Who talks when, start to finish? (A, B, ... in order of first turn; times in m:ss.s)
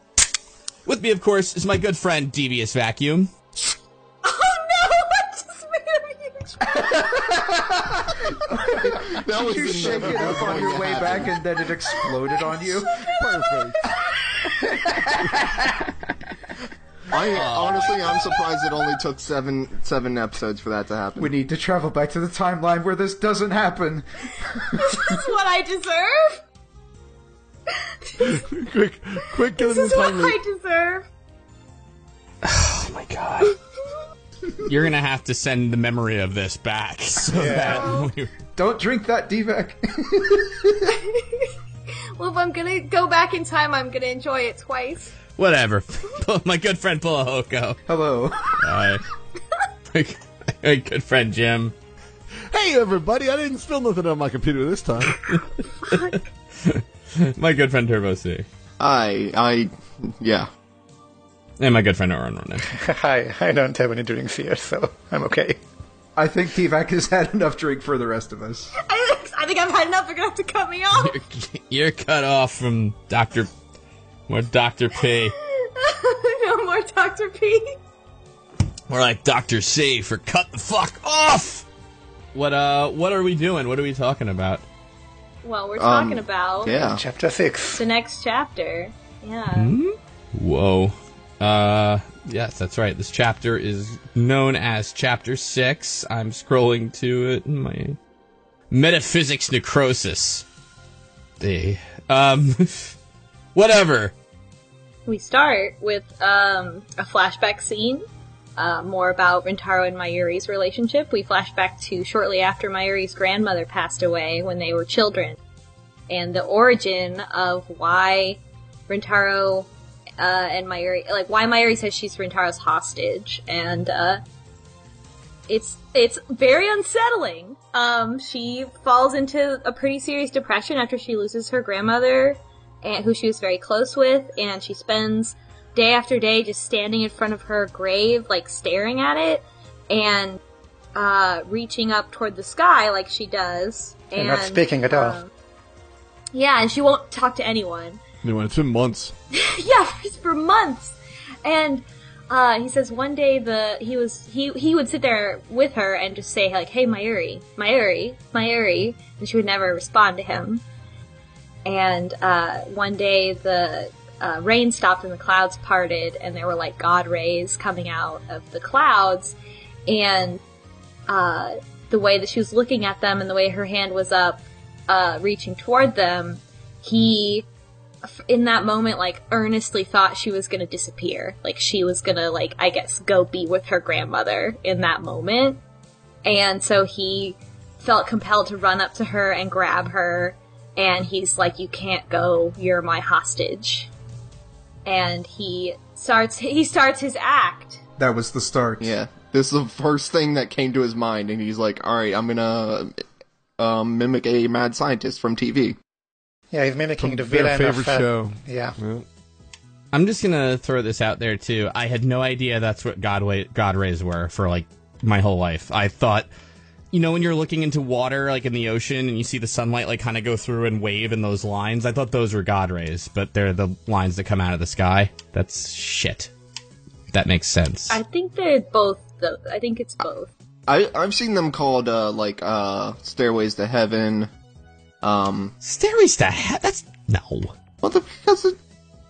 0:00.8-0:03.3 A
0:04.2-0:07.2 B
0:06.7-0:13.1 C
0:08.6-0:11.4 D
0:09.8-0:11.2 E
0:11.9-0:13.2 B
0:13.1-0:13.9 E
0:14.2-0:15.1 B
0:14.9-0:15.3 C
0:17.1-0:21.3 D
0:17.3-0:18.1 A
0:21.2-0:25.2 C
0:24.7-0:26.4 B
0:27.7-0:28.4 B
0:28.2-0:30.4 E
0:29.4-0:31.0 B
0:32.4-0:33.6 A
0:34.6-0:38.3 A
0:37.3-0:37.8 F
0:37.7-0:38.1 B
0:38.6-0:40.9 C
0:41.0-0:41.5 B
0:42.2-0:45.1 B
0:45.4-0:47.8 A
0:47.9-0:48.6 C
0:48.6-0:49.0 A
0:49.9-0:51.7 A
0:52.5-0:55.2 E
0:55.2-0:58.4 A
0:55.8-0:56.2 B
0:58.8-1:00.5 D
1:01.6-1:02.7 A
1:02.7-1:05.6 F
1:06.2-1:08.7 C
1:08.8-1:11.2 B
1:11.0-1:13.5 A
1:14.3-1:15.3 A
1:15.4-1:17.7 B
1:18.9-1:21.6 A
1:22.3-1:24.6 A
1:25.4-1:26.8 B
1:25.8-1:27.0 D
1:26.7-1:27.8 F
1:27.7-1:29.7 B
1:29.6-1:38.0 A
1:38.7-1:40.4 A
1:41.4-1:42.9 A
1:43.5-1:44.1 A
1:45.0-1:48.0 B
1:48.6-1:55.4 B
1:56.1-1:59.7 B
2:00.2-2:04.2 B
2:05.5-2:20.4 B
2:20.9-2:25.3 B
2:24.1-2:25.2 F
2:26.3-2:28.0 B
2:28.2-2:29.1 E
2:29.3-2:40.6 B
2:41.6-2:49.3 B
2:49.9-2:50.4 B
2:51.1-2:57.4 B
2:58.0-3:05.6 B
3:06.2-3:13.9 B
3:14.8-3:17.8 B
3:18.0-3:18.9 C
3:18.8-3:23.0 D
3:23.6-3:25.8 D
3:26.5-3:28.8 F
3:27.0-3:29.0 E
3:29.9-3:36.3 A
3:36.9-3:46.3 A
3:47.1-3:48.0 A
3:47.9-3:50.3 B
3:50.7-3:54.3 D
3:55.0-3:55.5 D
3:55.6-3:57.5 A
3:57.8-3:58.6 D